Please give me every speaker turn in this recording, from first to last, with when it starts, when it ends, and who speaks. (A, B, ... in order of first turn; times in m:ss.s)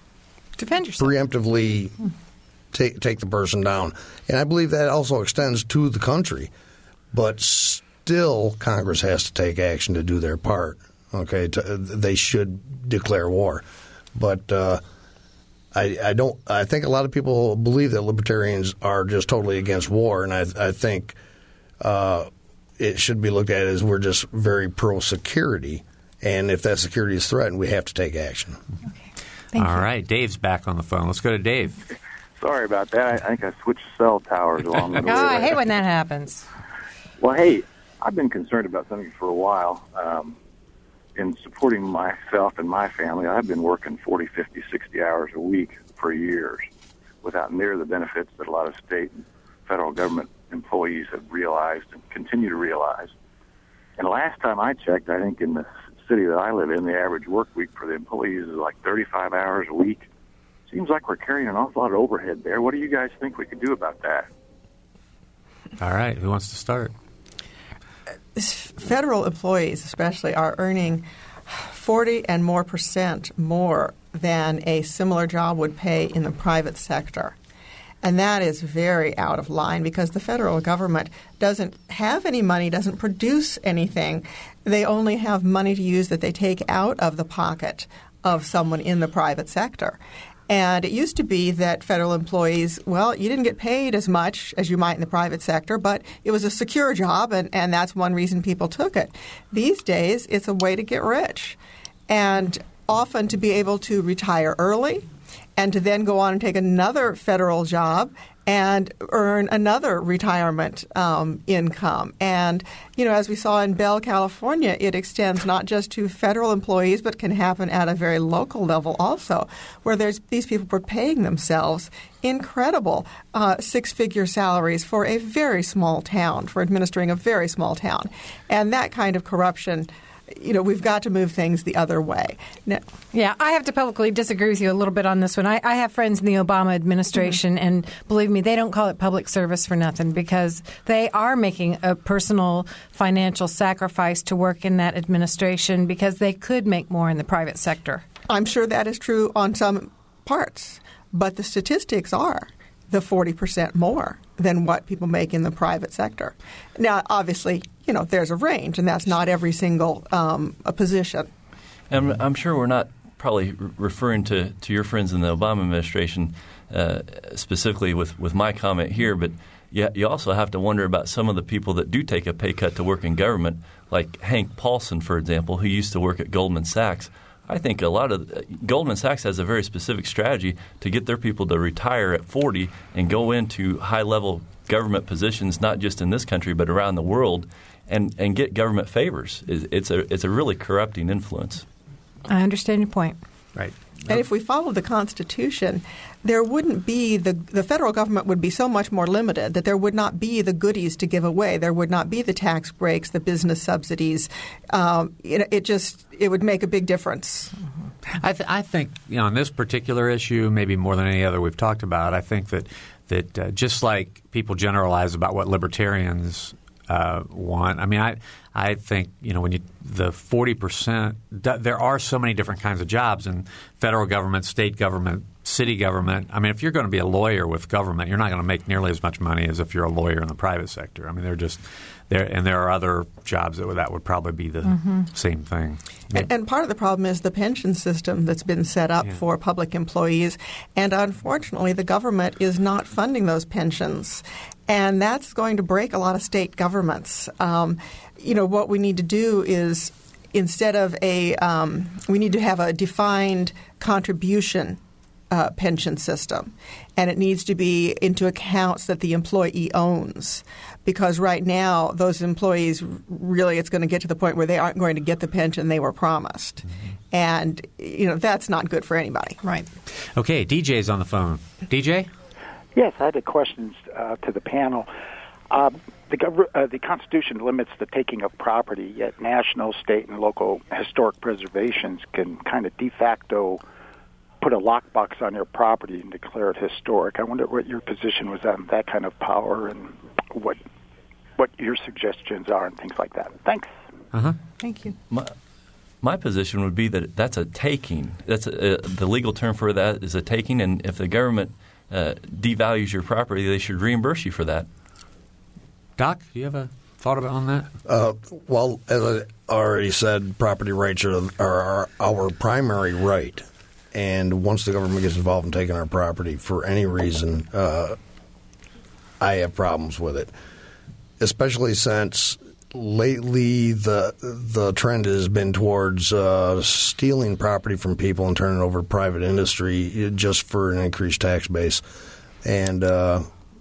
0:00.6-0:01.1 A
0:01.0-0:02.0 B
0:02.7-0:06.5 B
0:07.1-0:14.8 B
0:15.7-0:21.2 B
0:21.8-0:28.6 B
0:29.5-0:29.9 A
0:29.6-0:31.8 C
0:32.4-0:35.7 D
0:35.0-0:36.5 A
0:37.2-0:40.4 D
0:41.2-0:46.7 D
0:47.2-0:53.1 D
0:54.0-1:00.0 D
1:00.7-1:04.3 D
1:05.8-1:06.9 C
1:08.3-1:17.3 E
1:18.0-1:30.0 E
1:30.5-1:45.0 E
1:45.6-2:12.8 E
2:13.1-2:28.0 A
2:28.3-2:41.3 E
2:41.9-3:11.6 F
3:12.3-3:13.2 A
3:13.5-3:14.2 C
3:14.1-3:27.5 E
3:28.2-3:56.3 C
3:54.6-3:55.0 A
3:56.1-4:14.8 E
4:15.3-4:29.4 E
4:30.2-4:32.1 C
4:32.7-4:34.9 G
4:35.5-4:43.6 G
4:44.4-4:50.6 G
4:51.4-4:53.7 G
4:54.6-4:54.9 A
4:56.0-5:04.7 F
5:06.0-5:07.7 C
5:07.8-5:18.0 B
5:19.2-5:20.3 B
5:21.2-5:31.8 B
5:32.4-5:33.2 B